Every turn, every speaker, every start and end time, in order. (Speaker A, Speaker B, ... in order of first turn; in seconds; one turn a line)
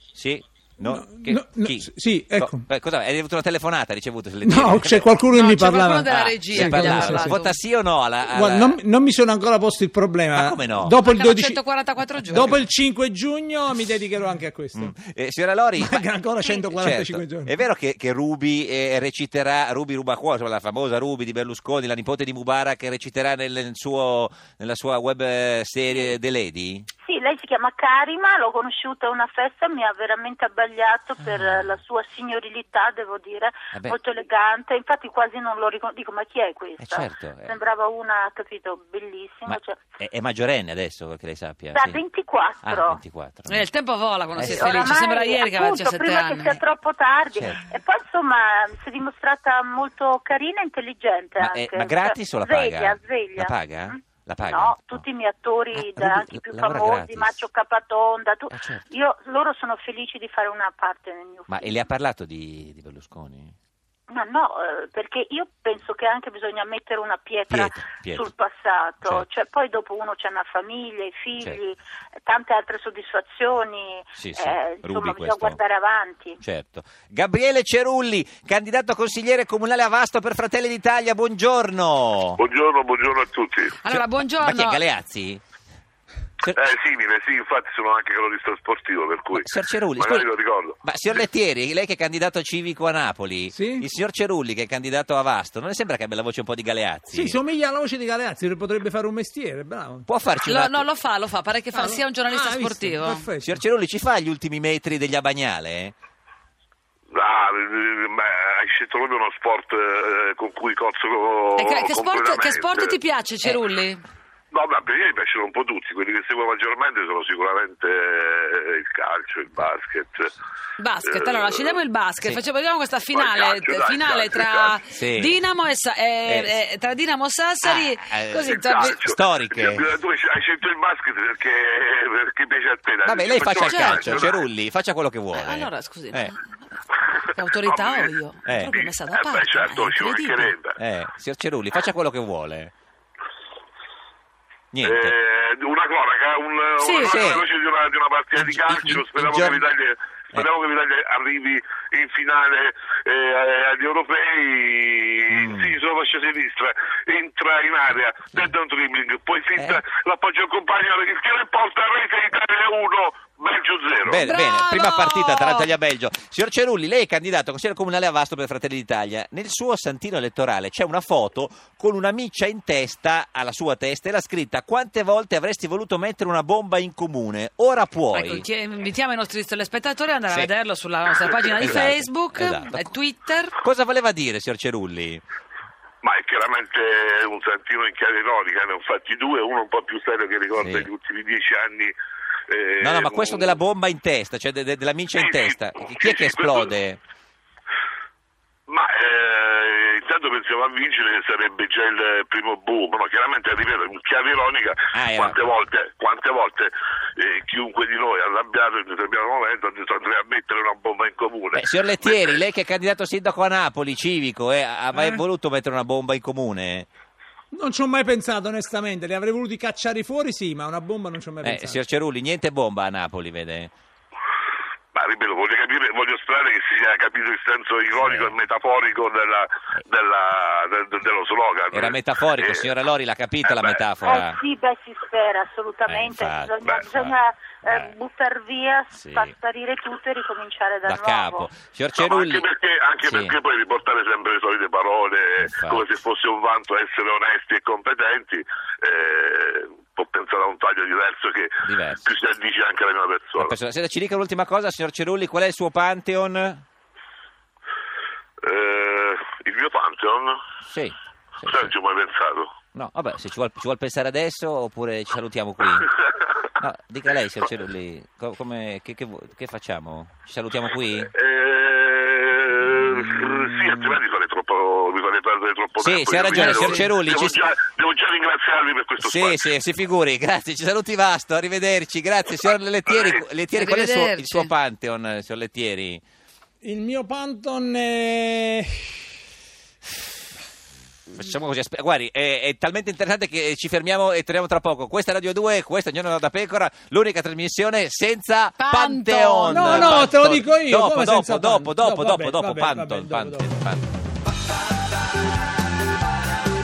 Speaker A: 0.1-5.1
Speaker B: 0.8-2.6
Speaker B: 4.4-7.4
Speaker C: 5.3-7.5
Speaker A: 6.0-8.8
Speaker B: 8.3-11.6
Speaker A: 10.3-10.9
Speaker C: 11.0-12.6
Speaker B: 12.2-14.9
Speaker A: 14.7-16.0
Speaker B: 15.8-17.5
Speaker A: 16.7-26.9
Speaker D: 27.0-39.8
Speaker A: 31.2-31.7
Speaker A: 33.7-34.0
Speaker A: 36.8-37.6
Speaker A: 39.5-42.0
Speaker D: 41.7-43.0
Speaker A: 42.6-43.6
Speaker C: 43.5-46.6
Speaker A: 44.3-45.0
Speaker D: 44.4-61.9
Speaker A: 47.3-47.6
Speaker A: 51.4-55.0
Speaker A: 55.7-57.4
Speaker A: 58.5-58.8
Speaker A: 61.5-63.5
Speaker D: 64.1-76.4
Speaker A: 67.5-68.3
Speaker A: 74.2-75.6
Speaker A: 76.4-82.4
Speaker E: 82.4-83.8
Speaker C: 83.8-84.8
Speaker A: 83.9-85.4
Speaker E: 86.5-90.8
Speaker A: 89.3-97.3
Speaker B: 93.5-93.9
Speaker B: 97.1-100.1
Speaker A: 100.1-100.9
Speaker C: 100.5-103.2
Speaker B: 101.7-103.6
Speaker A: 103.4-105.9
Speaker E: 107.1-113.0
Speaker C: 111.5-114.0
Speaker E: 114.5-120.3
Speaker C: 120.8-129.0
Speaker E: 121.0-121.8
Speaker E: 123.1-124.8
Speaker A: 124.9-125.4
Speaker A: 126.3-126.5
Speaker A: 127.6-129.8
Speaker E: 128.4-134.4
Speaker A: 133.0-136.3
Speaker C: 133.6-134.3
Speaker C: 135.3-136.8
Speaker C: 137.3-140.5
Speaker E: 137.6-138.1
Speaker A: 138.4-138.7
Speaker E: 138.7-140.8
Speaker A: 140.8-142.7
Speaker A: 144.7-145.1
Speaker E: 144.8-164.2
Speaker C: 146.8-147.4
Speaker A: 147.0-147.4
Speaker A: 148.3-149.6
Speaker A: 155.3-155.7
Speaker A: 164.0-178.4
Speaker C: 164.1-165.7
Speaker C: 178.1-183.5
Speaker A: 181.6-182.9
Speaker A: 183.6-185.2
Speaker E: 186.0-191.9
Speaker A: 190.6-190.9
Speaker E: 192.5-193.6
Speaker A: 192.8-197.0
Speaker E: 195.1-196.7
Speaker E: 198.7-212.4
Speaker A: 204.9-205.5
Speaker A: 211.5-216.9
Speaker B: 214.9-215.2
Speaker B: 217.5-221.8
Speaker A: 221.4-223.7
Speaker E: 224.9-232.7
Speaker A: 227.9-228.3
Speaker A: 231.7-234.4
Speaker E: 233.4-233.8
Speaker D: 234.0-241.5
Speaker A: 235.8-237.9
Speaker A: 238.9-239.3
Speaker A: 240.8-242.4
Speaker E: 242.0-253.5
Speaker A: 243.0-243.4
Speaker A: 245.4-245.8
Speaker A: 251.6-252.0
Speaker A: 253.4-256.6
Speaker E: 258.4-260.4
Speaker A: 260.6-261.7
Speaker E: 261.4-262.5
Speaker A: 262.7-265.9
Speaker A: 266.6-271.1
Speaker E: 271.1-279.5
Speaker A: 272.6-274.0
Speaker A: 275.8-277.5
Speaker C: 276.3-276.9
Speaker A: 279.0-286.0
Speaker E: 282.9-283.2
Speaker C: 283.5-284.5
Speaker B: 286.6-289.1
Speaker A: 291.1-303.8
Speaker C: 298.6-300.1
Speaker B: 299.5-303.5